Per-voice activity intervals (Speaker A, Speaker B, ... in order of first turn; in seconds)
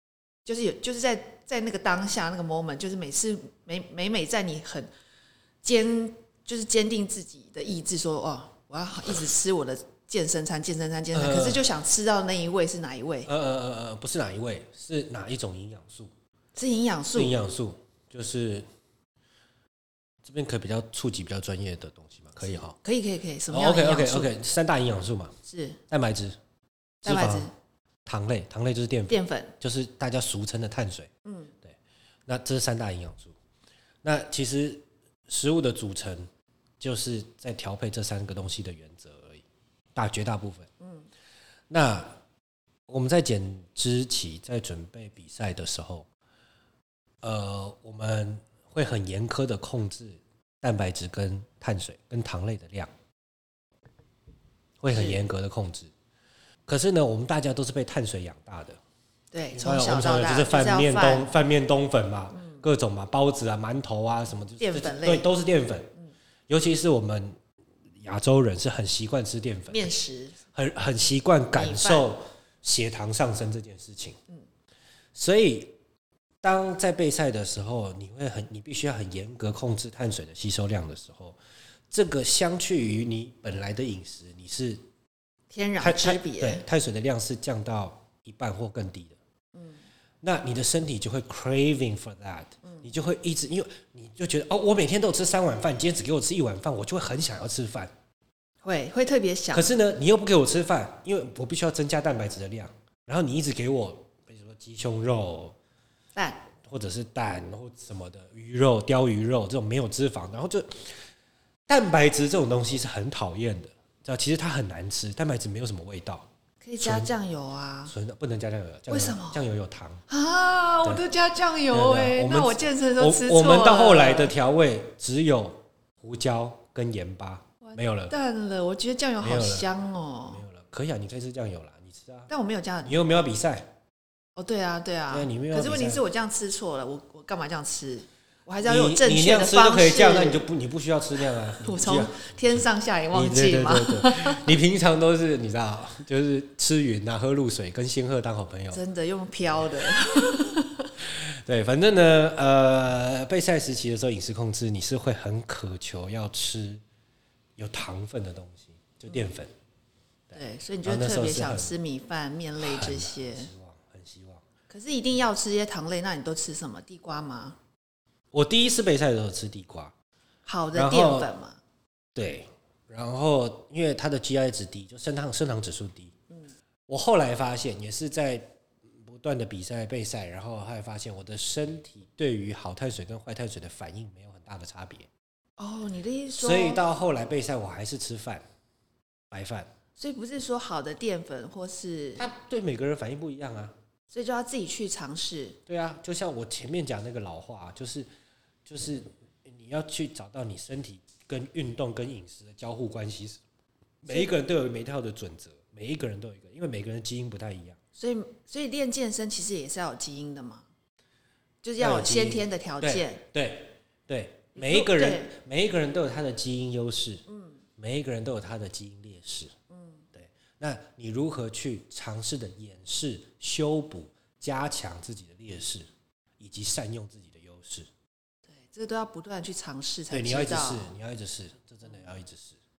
Speaker A: 0.5-4.9, 5.6-13.3, 16.5-17.4, 22.8-24.3, 25.4-25.8, 27.0-27.5, 29.1-29.5, 31.2-31.5, 40.8-41.1, 54.9-55.2, 59.3-61.4, 62.3-62.6, 64.6-65.3, 69.7-70.4, 71.5-72.1, 85.5-86.6, 89.5-89.8, 98.6-99.7, 106.1-106.5, 116.6-117.9, 118.9-119.4, 120.1-124.3, 127.6-130.4, 132.3-133.0, 134.4-140.4, 141.4-144.4, 148.7-150.9, 160.3-163.5, 164.7-167.6, 170.4-171.6, 185.6-186.8, 190.0-192.3, 194.1-195.6, 204.1-204.3, 207.9-210.7, 211.6-213.2, 214.6-215.3, 217.3-217.6, 219.7-220.1, 228.5-230.9
Speaker B: 11.1-11.7, 13.2-16.1, 17.1-18.6, 20.2-22.8, 23.5-25.3, 25.9-26.4, 27.0-27.5, 28.1-31.1, 31.6-33.3, 34.0-36.3, 36.8-40.7, 41.7-42.2, 42.9-46.1, 47.2-52.9, 54.8-55.9, 56.7-58.8, 59.5-65.9, 66.5-67.4, 68.0-69.9, 70.5-74.2, 75.1-75.8, 76.4-81.4, 81.9-84.8, 85.8-89.2, 90.2-97.9, 99.5-105.5, 106.6-111.1, 111.7-116.3, 116.8-117.1, 117.9-120.0, 121.7-128.1, 129.2-129.7, 130.3-132.3, 132.8-133.7, 135.1-136.0, 138.6-142.2, 143.1-148.8, 149.6-150.3, 151.0-156.8, 157.6-159.5, 160.3-161.7, 162.6-164.4, 168.3-169.9, 170.7-171.3, 172.1-176.1, 176.9-185.1, 186.4-188.4, 189.3-189.7, 192.2-193.8, 195.7-198.1, 198.7-203.4, 204.0-207.8, 211.8-217.2, 217.8-219.5, 220.1-225.8, 226.4-227.9, 230.1-232.6